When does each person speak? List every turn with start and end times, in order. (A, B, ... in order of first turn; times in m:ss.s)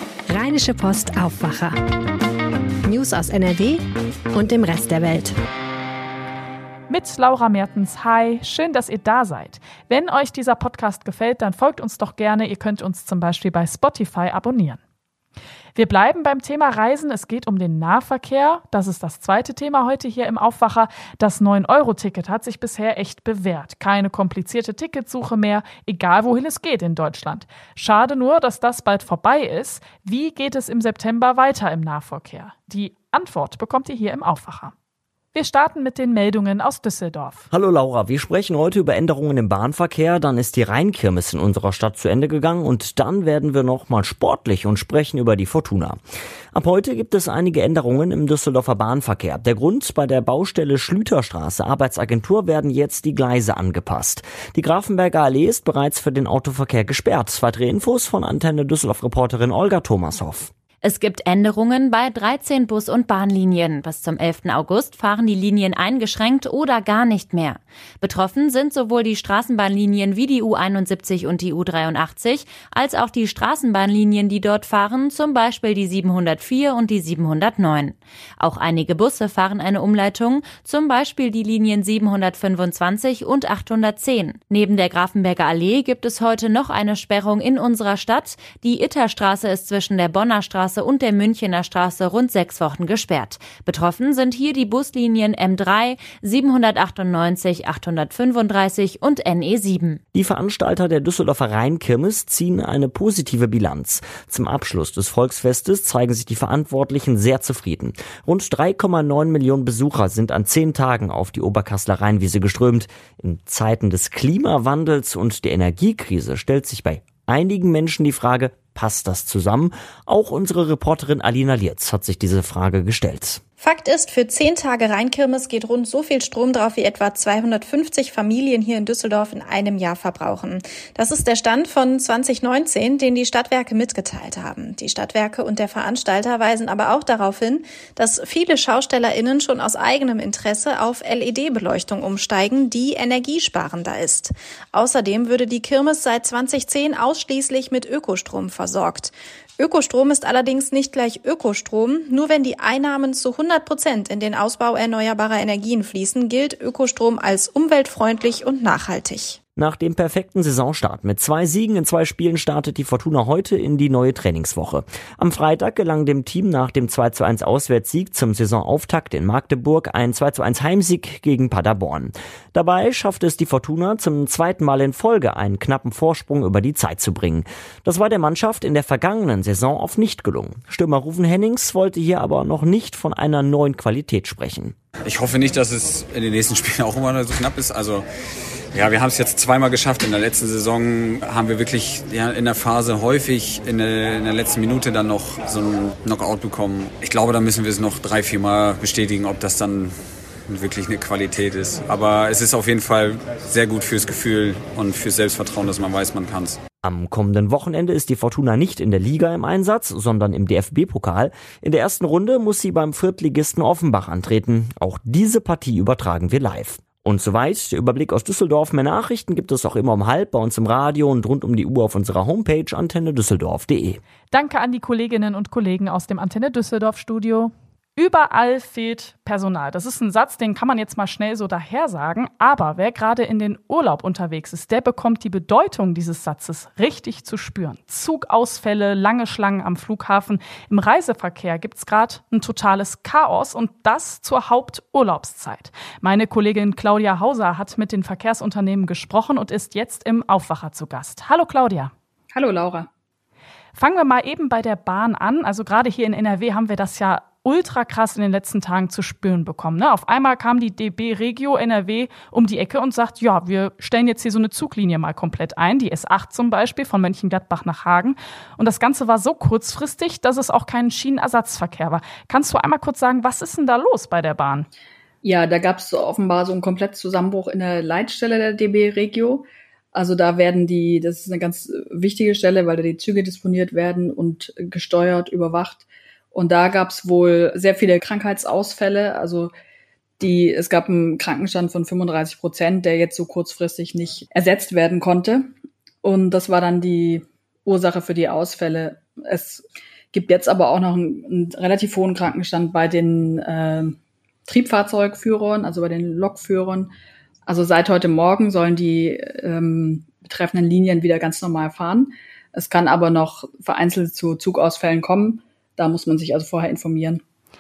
0:00.3-0:01.8 A
0:02.8-0:05.4 A
0:06.9-0:14.8 B
0:15.8-0:34.7 B
0:35.3-0:37.4 B
0:37.5-0:46.0 C
0:46.5-1:00.5 C
1:00.8-1:40.0 D
1:40.1-2:03.4 C
2:03.6-2:39.4 E
2:39.6-3:04.7 C
3:05.0-3:08.0 F
3:08.7-3:26.6 F
3:26.8-3:44.0 C
3:44.3-4:11.9 B
4:12.3-4:12.9 G
4:13.8-4:34.7 B
4:35.2-4:49.5 G
4:50.2-4:55.5 G
4:56.0-5:06.9 G
5:07.5-5:17.2 G